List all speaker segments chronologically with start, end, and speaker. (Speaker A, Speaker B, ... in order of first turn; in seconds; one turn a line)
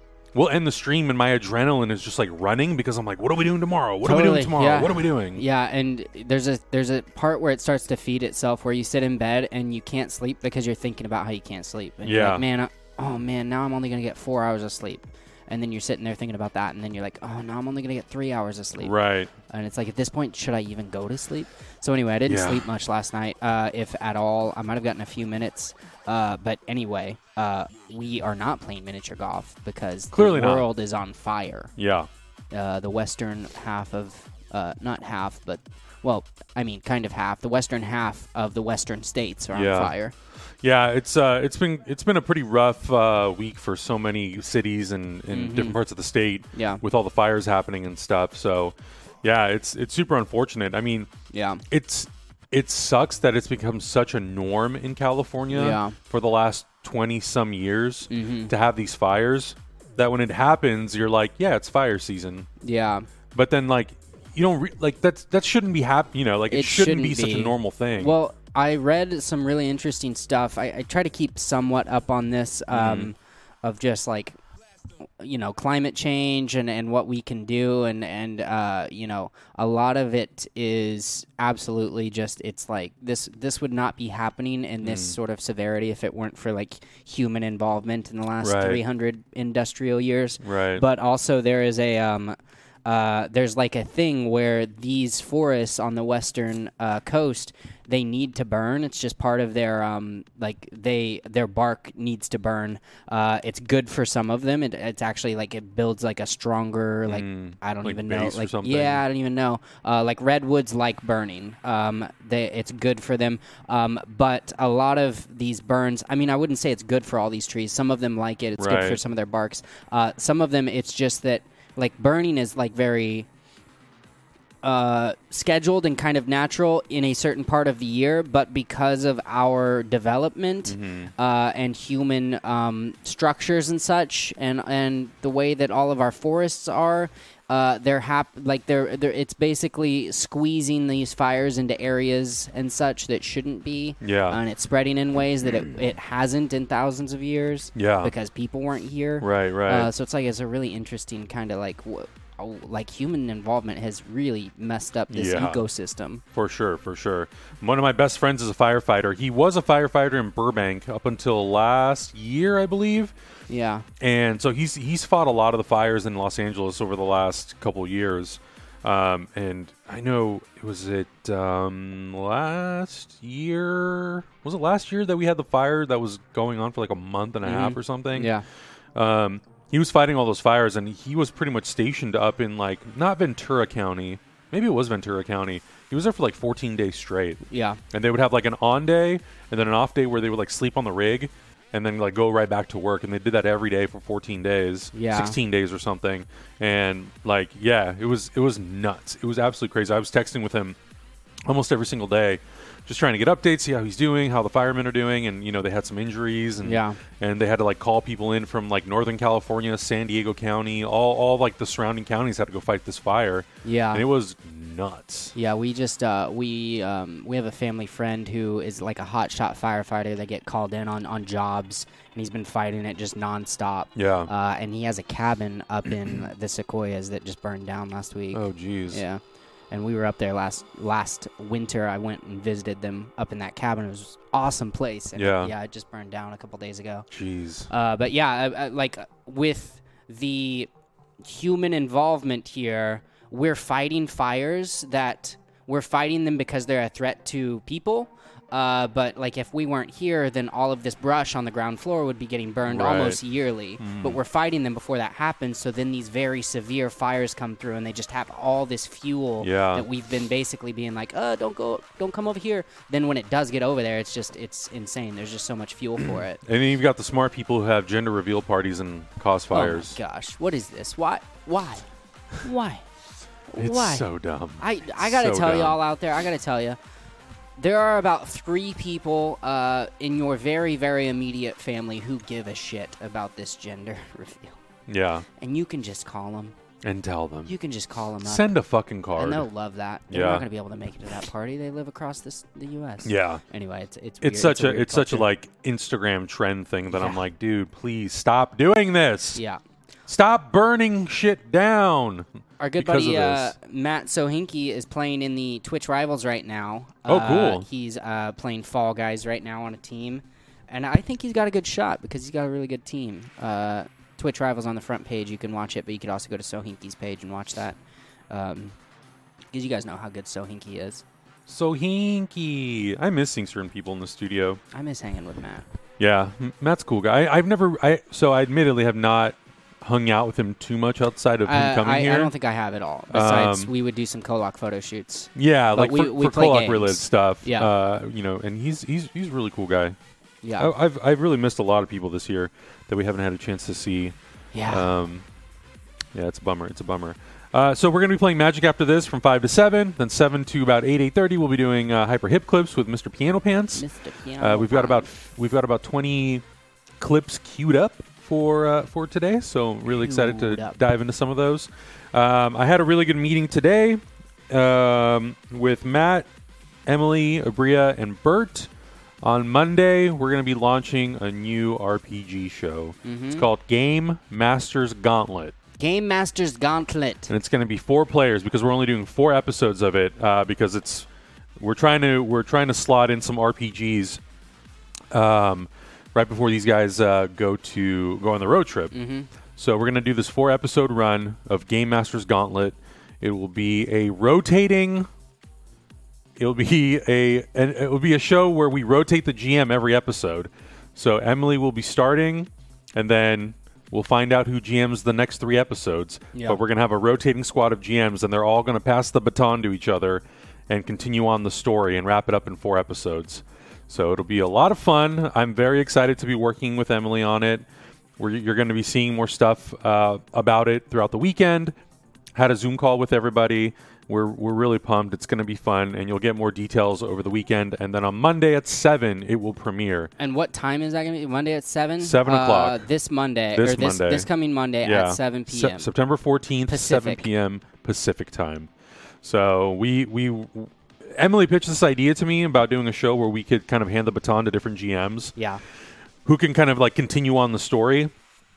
Speaker A: 0.3-5.4
Speaker B: 4.0-18.9
Speaker A: 12.0-12.4
Speaker A: 18.8-19.3
Speaker B: 19.5-31.7
Speaker A: 22.3-22.6
Speaker A: 30.1-30.7
Speaker A: 31.8-32.1
Speaker B: 32.5-40.1
Speaker A: 39.5-39.9
Speaker A: 40.6-51.1
Speaker B: 45.3-45.8
Speaker B: 46.5-46.8
Speaker B: 51.3-51.6
Speaker A: 51.7-62.5
Speaker B: 55.5-56.0
Speaker B: 58.1-58.5
Speaker B: 62.6-63.1
Speaker A: 63.3-68.2
Speaker B: 66.5-74.4
Speaker A: 72.7-73.1
Speaker B: 75.2-92.3
Speaker A: 84.8-85.2
Speaker A: 88.4-88.8
Speaker A: 90.4-90.8
Speaker B: 92.9-123.3
Speaker A: 107.1-109.0
Speaker A: 118.6-119.0
Speaker B: 124.6-156.2
Speaker A: 130.7-131.1
Speaker A: 144.0-144.4
Speaker A: 147.8-148.1
Speaker A: 149.2-149.9
Speaker A: 155.1-155.6
Speaker A: 156.3-163.1
Speaker B: 163.5-163.9
Speaker A: 164.0-178.3
Speaker B: 177.4-178.5
Speaker A: 178.9-200.8
Speaker B: 187.5-187.8
Speaker B: 194.9-195.4
Speaker A: 201.5-215.3
Speaker B: 206.6-207.0
Speaker B: 213.6-214.0
Speaker B: 215.3-237.1
Speaker A: 223.9-224.3
Speaker A: 228.3-229.0
Speaker A: 235.2-235.5
Speaker A: 237.1-237.7
Speaker B: 237.7-240.7
Speaker B: 241.2-266.4
Speaker A: 252.7-253.2
Speaker A: 253.8-254.2
Speaker A: 259.4-259.9
Speaker A: 266.0-270.0
Speaker B: 269.5-271.9
Speaker B: 272.4-272.9
Speaker B: 273.5-274.1
Speaker A: 273.6-275.8
Speaker B: 274.6-276.8
Speaker B: 277.6-284.6
Speaker A: 284.9-285.3
Speaker B: 285.4-286.6
Speaker A: 286.8-287.5
Speaker B: 287.5-288.5
Speaker A: 288.2-289.5
Speaker B: 289.2-295.3
Speaker A: 290.1-290.4
Speaker A: 293.0-293.4
Speaker A: 294.2-299.4
Speaker B: 296.9-297.2
Speaker B: 299.4-299.6
Speaker A: 300.1-302.3
Speaker B: 302.6-317.8
Speaker A: 302.8-303.6
Speaker A: 307.1-307.7
Speaker B: 318.3-318.8
Speaker B: 319.5-321.0
Speaker A: 321.5-324.6
Speaker B: 324.7-325.7
Speaker A: 326.0-332.3
Speaker B: 331.5-337.7
Speaker A: 333.1-333.7
Speaker A: 335.4-340.0
Speaker B: 340.4-340.7
Speaker A: 340.6-344.1
Speaker B: 344.5-344.9
Speaker A: 344.7-345.2
Speaker A: 346.1-353.9
Speaker B: 353.8-355.1
Speaker A: 354.4-356.4
Speaker A: 357.0-366.3
Speaker B: 359.9-360.8
Speaker A: 366.9-368.7
Speaker A: 369.2-375.6
Speaker B: 373.0-373.5
Speaker B: 375.8-377.3
Speaker A: 377.3-384.2
Speaker A: 385.1-388.9
Speaker B: 388.9-389.3
Speaker A: 389.6-395.1
Speaker A: 396.4-417.7
Speaker B: 406.3-406.6
Speaker A: 418.2-421.7
Speaker A: 422.4-430.1
Speaker B: 430.2-435.9
Speaker A: 432.0-432.9
Speaker A: 433.5-434.3
Speaker A: 434.8-438.7
Speaker B: 436.7-437.3
Speaker A: 439.2-445.4
Speaker B: 445.4-445.6
Speaker A: 446.2-448.1